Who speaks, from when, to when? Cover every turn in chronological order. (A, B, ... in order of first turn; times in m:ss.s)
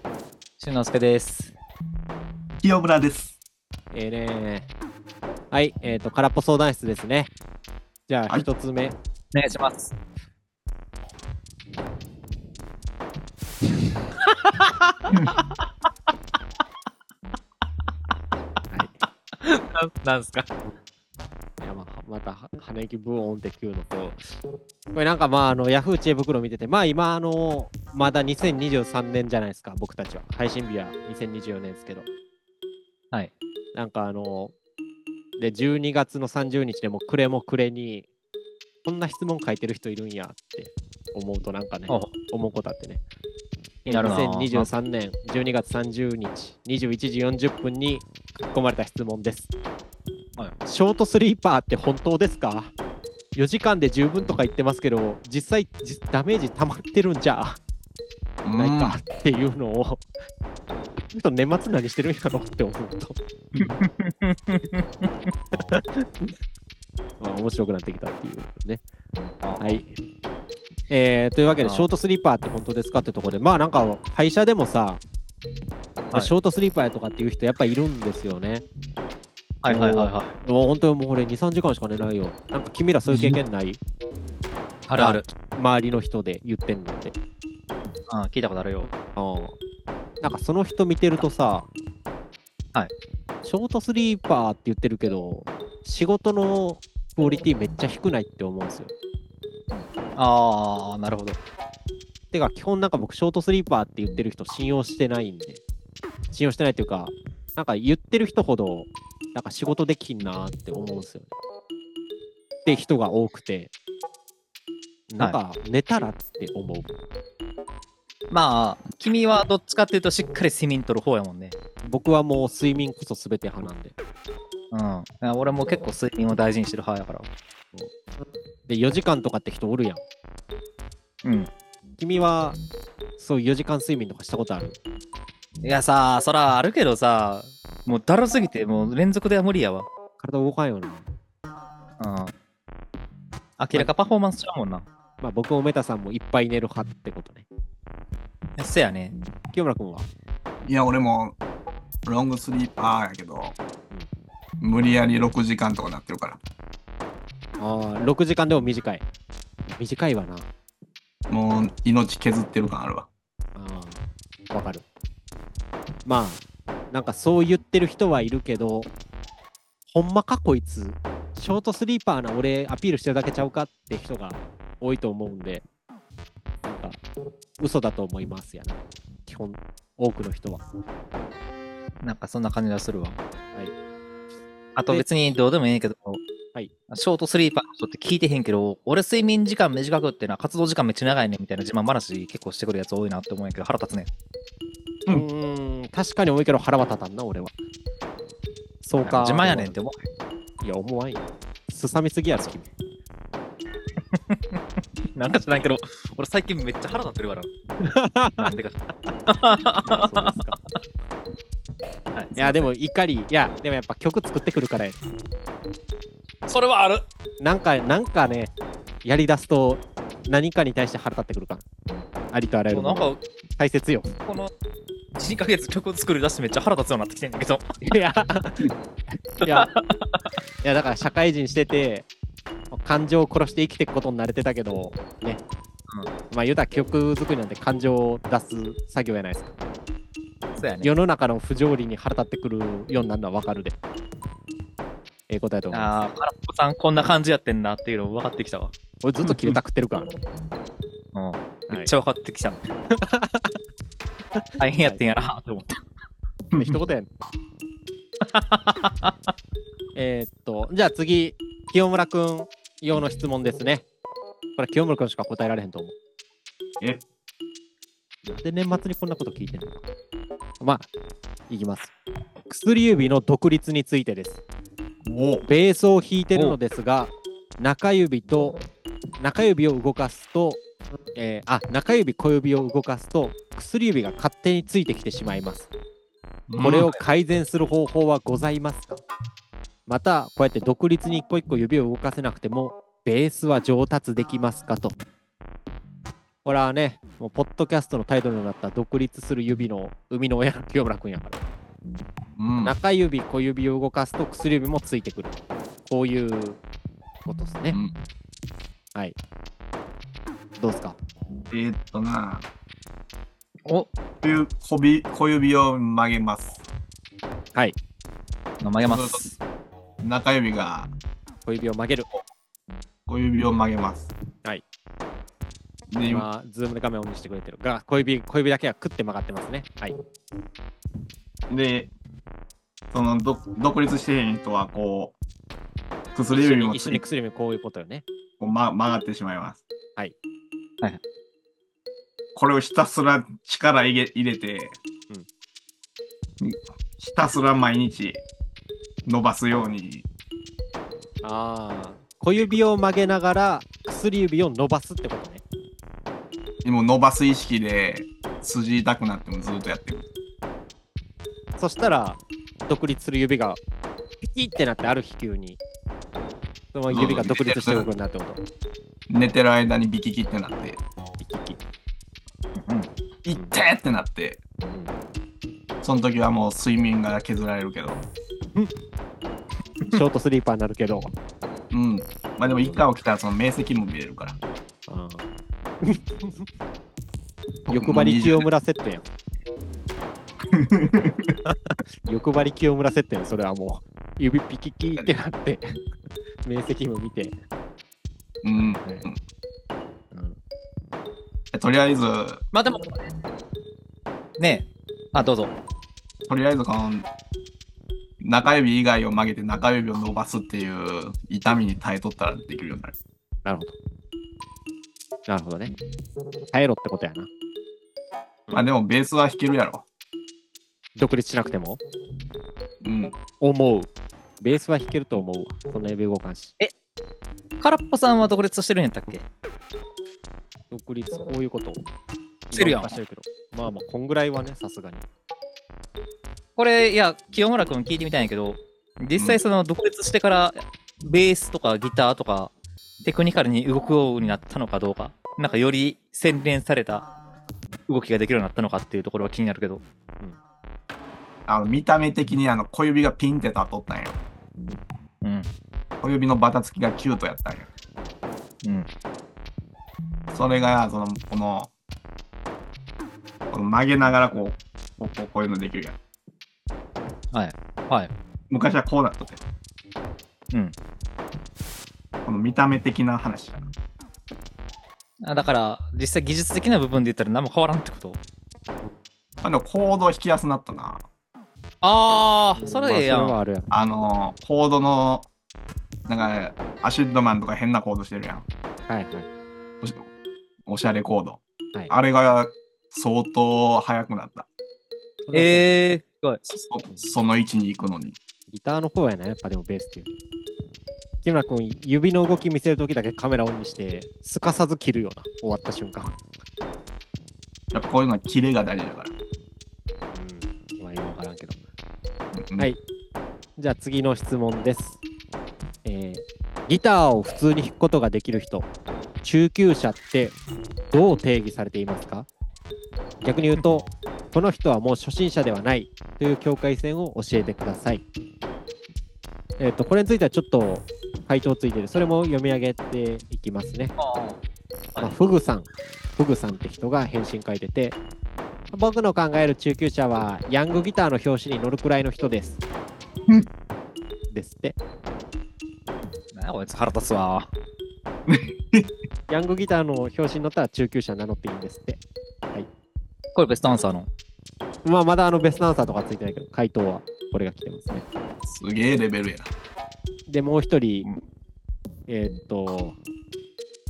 0:00.6-0:01.6 A
0:02.6-0:03.4 B
0:03.9-0:04.7 C
0:05.5-0:07.3 C
0:08.1-0:09.0 C
0:09.3-0:10.0 A
0:14.5-0:15.4 A
0:18.7-0:19.0 C
0:18.8-0:20.5 A
0:21.6-0:24.2 C
0:24.9-0:32.1 C
0:33.7-0:34.6 C
0:35.4-0:38.1 C
0:38.8-0:43.0 C
0:41.9-0:42.1 A
0:43.8-0:49.5 C
0:43.9-0:44.7 A
0:50.7-0:52.7 C
0:53.4-0:57.6 C
0:58.4-0:59.0 B
0:58.6-1:00.1 C
1:01.0-1:03.2 C
1:03.6-1:05.7 A
1:05.7-1:06.4 C
1:07.2-1:08.8 C
1:09.4-1:09.8 A
1:09.6-1:09.9 C
1:10.9-1:15.0 C
1:11.6-1:11.9 A
1:16.1-1:18.6 C
1:19.6-1:20.3 A
1:19.7-1:23.8 C
1:23.1-1:23.4 A
1:24.9-1:25.3 A
1:25.0-1:27.2 C
1:28.1-1:28.9 A
1:29.2-1:29.6 C
1:30.2-1:31.7 C
1:33.4-1:38.9 C
1:39.7-1:41.4 A
1:42.3-1:45.6 C
1:46.3-1:51.3 C
1:52.6-1:53.7 C
1:55.1-1:56.9 C
1:58.3-2:01.6 A
2:01.8-2:03.9 C
2:04.7-2:07.3 A
2:08.7-2:10.0 C
2:11.2-2:11.5 A
2:12.0-2:12.6 C
2:13.2-2:14.8 C
2:15.6-2:19.9 A
2:20.2-2:21.1 C
2:22.0-2:22.3 A
2:23.6-2:24.9 A
2:25.2-2:27.5 C
2:28.6-2:29.2 A
2:29.5-2:30.1 C
2:30.6-2:31.4 B
2:32.1-2:33.6 B
2:34.6-2:36.4 B
2:37.6-2:39.0 C
2:39.7-2:40.5 C
2:41.3-2:43.1 B
2:43.6-2:44.8 C
2:46.0-2:48.9 C
2:49.9-2:55.6 C
2:56.6-2:57.0 C
2:57.6-3:00.6 C
3:02.0-3:03.2 A
3:04.8-3:06.2 A
3:06.9-3:14.1 A
3:15.1-3:17.5 C
3:18.8-3:19.8 C
3:19.0-3:20.1 A
3:20.6-3:22.7 C
3:24.1-3:24.6 A
3:25.1-3:27.5 A
3:27.8-3:28.6 C
3:28.4-3:30.8 A
3:29.9-3:30.6 C
3:32.2-3:32.7 A
3:32.4-3:35.0 C
3:36.5-3:37.0 A
3:37.4-3:41.6 C
3:42.3-3:44.1 C
3:42.7-3:43.2 A
3:44.3-3:44.5 A
3:45.2-3:47.8 A
3:47.9-3:48.7 C
3:49.4-3:49.7 C
3:49.4-3:50.4 A
3:50.6-3:52.1 C
3:52.7-3:55.4 C
3:56.3-3:59.6 C
4:00.6-4:00.9 A
4:00.8-4:03.8 C
4:05.3-4:05.9 C
4:05.7-4:08.7 A
4:09.0-4:10.1 C
4:11.1-4:12.7 A
4:12.9-4:13.6 C
4:14.4-4:15.0 C
4:14.6-4:15.8 A
4:16.6-4:17.1 C
4:18.2-4:19.3 A
4:20.0-4:23.8 C
4:24.6-4:26.0 C
4:28.2-4:29.8 C
4:30.6-4:30.9 C
4:31.5-4:31.9 C
4:32.5-4:34.4 C
4:35.0-4:35.5 B
4:35.5-4:38.6 C
4:39.2-4:40.6 C
4:41.2-4:45.7 C
4:46.5-4:47.0 B
4:46.6-4:49.0 C
4:49.9-4:55.0 C
4:56.4-5:01.4 C
5:02.4-5:02.8 B
5:02.6-5:06.6 C
5:07.3-5:07.8 C
5:07.7-5:08.0 B
5:10.6-5:11.0 C
5:11.5-5:12.5 B
5:14.2-5:16.6 B
5:18.6-5:19.4 A
5:18.8-5:19.3 B
5:20.0-5:20.9 B
5:21.5-5:22.1 C
5:23.1-5:24.1 B
5:25.9-5:26.3 B
5:26.1-5:30.0 C
5:31.5-5:31.9 B
5:32.9-5:35.2 B
5:36.1-5:37.0 B
5:36.3-5:38.0 C
5:38.4-5:39.6 B
5:42.4-5:44.8 B
5:46.4-5:48.2 B
5:49.0-5:50.1 B
5:51.2-5:55.4 C
5:56.6-6:00.1 B
6:01.6-6:03.6 C
6:04.2-6:05.6 C
6:06.7-6:08.4 C
6:06.9-6:07.9 B
6:09.1-6:10.8 B
6:11.2-6:11.6 C
6:13.2-6:14.4 B
6:15.8-6:18.0 B
6:19.9-6:21.1 C
6:21.7-6:24.4 B
6:22.5-6:22.8 C
6:24.9-6:25.3 C
6:25.8-6:26.5 C
6:27.7-6:29.1 C
6:27.7-6:28.5 B
6:30.5-6:31.4 B
6:31.5-6:35.8 C
6:36.4-6:37.4 C
6:38.4-6:39.2 B
6:38.6-6:39.1 C
6:40.1-6:40.4 C
6:41.5-6:42.4 B
6:42.5-6:43.0 A
6:44.4-6:45.5 A
6:46.3-6:47.1 B
6:48.2-6:53.0 B
6:53.4-6:53.8 C
6:55.3-6:55.8 C
6:56.5-6:57.3 C
6:58.5-6:59.9 B
7:01.0-7:01.8 C
7:02.8-7:03.2 B
7:03.4-7:06.5 C
7:07.6-7:09.2 A
7:10.7-7:11.8 C
7:12.5-7:15.0 C
7:12.5-7:13.0 A
7:16.6-7:27.1 A
7:27.9-7:29.8 A
7:31.5-7:34.2 B
7:35.2-7:35.5 A
7:36.0-7:37.7 B
7:40.3-7:41.7 B
7:43.5-7:46.0 B
7:47.3-7:48.1 A
7:48.5-7:49.4 B
7:52.2-7:53.7 B
7:55.2-7:58.2 A
7:59.4-8:01.1 B
8:01.8-8:03.4 A
8:02.6-8:03.7 C
8:03.7-8:05.3 B
8:06.1-8:08.5 B
8:08.9-8:09.3 C
8:09.8-8:10.1 B
8:10.7-8:14.5 B
8:15.2-8:15.7 C
8:15.3-8:16.4 A
8:16.5-8:18.2 B
8:18.5-8:20.1 C
8:21.2-8:26.2 C
8:27.7-8:29.1 B
8:30.1-8:31.6 C
8:32.4-8:32.7 B
8:33.6-8:35.0 C
8:35.8-8:38.7 C
8:39.2-8:40.4 C
8:40.9-8:42.3 C
8:43.2-8:48.0 C
8:49.6-8:54.0 C
8:54.0-8:54.4 A
8:55.0-8:58.0 C
8:58.7-9:02.6 C
9:04.3-9:04.8 C
9:06.3-9:07.5 A
9:08.3-9:08.9 B
9:09.3-9:12.0 C
9:13.4-9:14.1 A
9:14.8-9:18.0 C
9:18.4-9:19.5 B
9:20.3-9:21.1 C
9:22.1-9:23.0 C